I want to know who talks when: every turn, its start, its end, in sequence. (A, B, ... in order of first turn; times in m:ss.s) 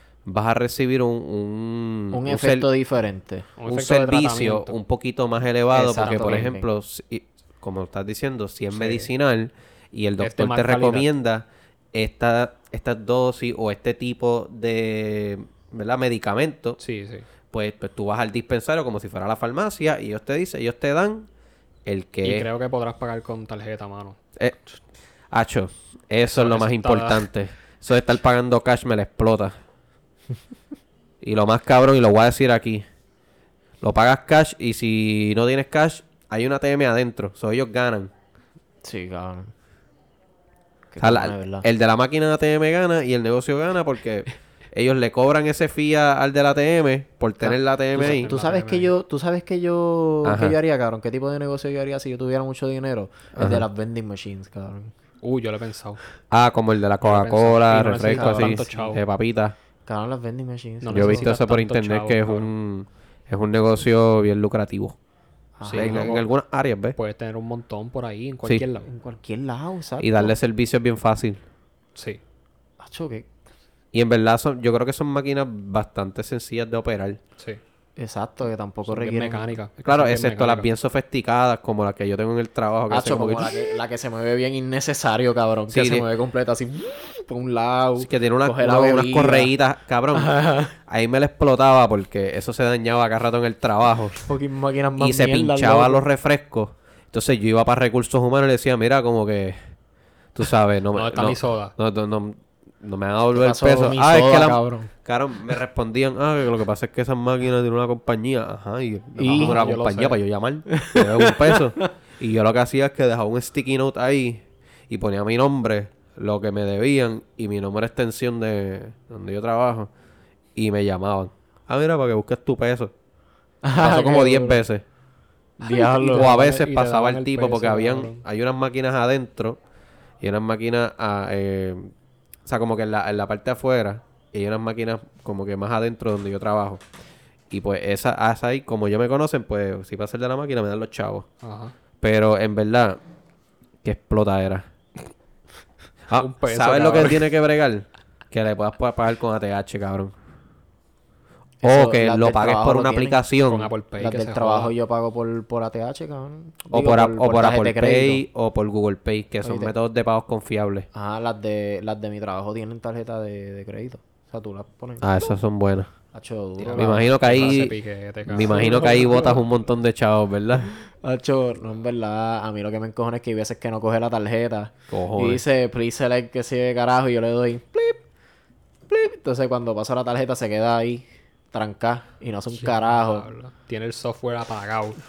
0:00.3-0:02.7 A
0:02.1-0:03.5 B
0:03.6-0:04.8 C
0:03.7-0:16.8 A
0:05.7-0:06.7 B
0:06.0-0:06.5 C
0:08.7-0:09.1 C
0:10.2-0:11.1 C
0:16.8-0:17.3 C
0:17.5-0:21.3 A
0:21.9-0:22.5 A
0:22.2-0:24.2 C
0:24.4-0:24.6 A
0:25.3-0:29.6 A
0:26.3-0:27.2 C
0:31.2-0:32.8 A
0:33.8-0:38.1 A
0:38.8-0:39.5 B
0:40.9-0:41.7 B
0:41.0-0:48.3 A
0:47.9-0:48.9 C
0:48.0-0:54.9 B
0:50.2-0:50.6 A
0:53.4-0:53.7 A
0:55.2-0:56.0 C
0:56.3-0:59.6 A
0:57.0-0:59.0 C
0:58.0-0:58.9 B
0:59.9-1:01.3 B
1:00.8-1:02.5 C
1:00.9-1:05.0 A
1:05.6-1:06.2 B
1:05.6-1:06.3 C
1:05.7-1:07.0 A
1:07.0-1:08.9 C
1:08.8-1:10.4 B
1:10.0-1:11.4 A
1:12.0-1:12.2 C
1:12.8-1:13.3 B
1:13.9-1:17.2 A
1:18.0-1:19.5 B
1:18.9-1:20.7 C
1:19.8-1:23.6 A
1:22.9-1:29.5 B
1:25.7-1:26.1 A
1:28.0-1:34.2 A
1:30.1-1:30.8 B
1:34.2-1:36.0 B
1:35.0-1:39.6 A
1:40.4-1:59.9 A
1:40.9-1:41.7 C
1:43.3-1:44.9 B
1:49.2-1:49.6 B
1:49.3-1:50.2 C
1:50.8-1:51.8 B
2:00.6-2:02.9 A
2:03.6-2:04.6 B
2:03.8-2:04.8 A
2:05.6-2:06.3 B
2:05.7-2:08.2 C
2:05.8-2:09.6 A
2:10.2-2:11.9 A
2:12.5-2:16.8 A
2:17.5-2:21.3 A
2:21.4-2:21.7 C
2:22.0-2:23.0 A
2:23.8-2:24.7 A
2:26.1-2:30.1 A
2:26.1-2:27.3 C
2:31.6-2:33.2 B
2:31.6-2:33.7 A
2:33.5-2:34.7 C
2:34.0-2:38.2 B
2:36.7-2:40.9 A
2:39.4-2:39.7 B
2:40.9-2:45.1 B
2:45.0-2:45.9 A
2:46.1-2:47.5 B
2:46.6-2:49.2 C
2:46.8-2:47.8 A
2:48.3-2:50.7 A
2:48.4-2:49.4 B
2:50.6-2:58.0 B
2:54.9-2:55.4 A
2:58.9-3:03.3 B
3:02.5-3:05.0 C